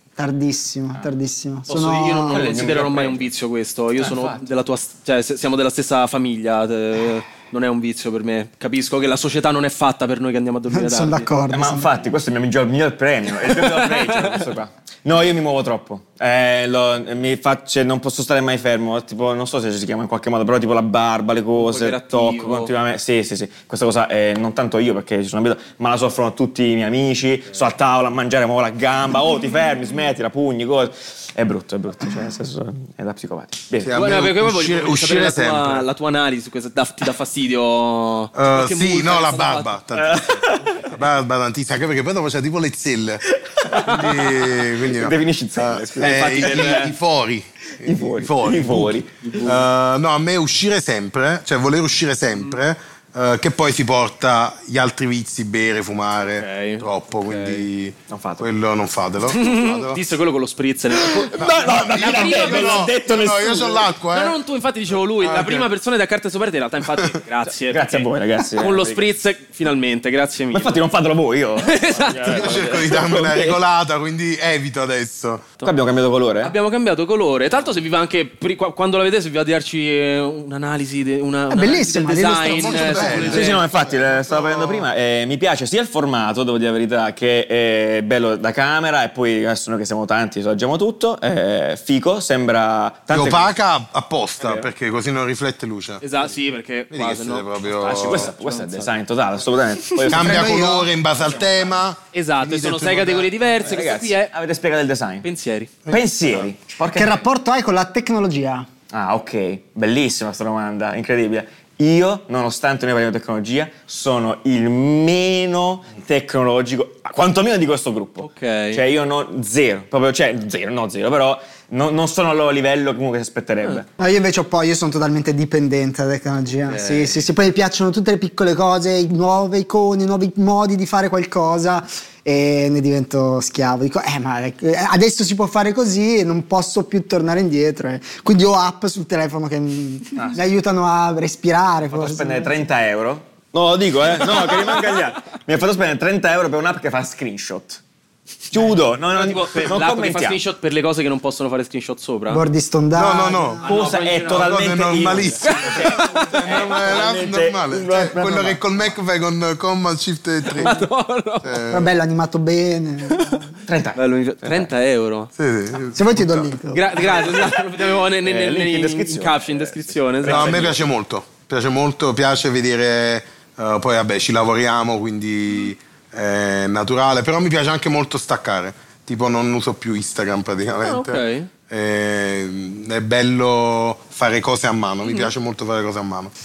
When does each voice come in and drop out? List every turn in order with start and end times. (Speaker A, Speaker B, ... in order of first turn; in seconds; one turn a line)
Speaker A: 0.2-2.4
Speaker B: 1.7-11.3
Speaker C: 2.2-3.3
Speaker C: 4.0-4.5
Speaker A: 10.7-11.9
Speaker C: 11.5-34.0
Speaker B: 13.7-14.3
Speaker B: 21.6-22.7
Speaker D: 33.8-35.9
Speaker B: 33.9-39.8
Speaker D: 38.4-60.0
Speaker C: 40.0-40.8
Speaker C: 43.5-46.9
Speaker B: 46.0-46.9
Speaker C: 47.8-49.4
Speaker B: 49.2-49.6
Speaker B: 56.4-57.7
Speaker C: 58.1-58.5
Speaker B: 59.3-62.9
Speaker C: 60.9-63.9
Speaker D: 61.4-64.4
Speaker B: 64.1-70.8
Speaker D: 65.2-65.7
Speaker C: 67.7-69.0
Speaker C: 70.5-73.6
Speaker B: 71.6-72.7
Speaker D: 72.2-75.5
Speaker C: 75.6-76.5
Speaker B: 76.4-83.6
Speaker A: 81.5-83.5
Speaker D: 82.4-84.9
Speaker C: 83.3-93.5
Speaker D: 93.1-96.0
Speaker B: 96.0-98.9
Speaker D: 96.9-98.3
Speaker C: 97.8-100.7
Speaker D: 100.1-103.3
Speaker A: 100.1-100.9
Speaker B: 102.1-104.3
Speaker C: 103.6-105.3
Speaker B: 105.2-105.8
Speaker C: 105.9-107.2
Speaker A: 106.9-108.7
Speaker C: 108.9-123.9
Speaker B: 118.2-118.8
Speaker A: 124.0-142.6
Speaker B: 126.7-127.2
Speaker C: 140.2-140.4
Speaker C: 141.9-147.8
Speaker C: 148.5-150.4
Speaker B: 148.6-152.4
Speaker A: 152.3-153.6
Speaker D: 152.9-153.7
Speaker B: 153.6-154.6
Speaker C: 153.6-158.6
Speaker D: 154.3-160.8
Speaker B: 155.4-156.3
Speaker B: 160.5-161.6
Speaker D: 161.4-161.9
Speaker A: 161.7-163.5
Speaker C: 163.7-164.7
Speaker B: 164.0-165.3
Speaker D: 165.4-166.5
Speaker A: 165.9-166.9
Speaker B: 166.7-170.7
Speaker C: 167.0-170.8
Speaker D: 170.2-186.3
Speaker B: 180.8-181.5
Speaker B: 185.1-185.3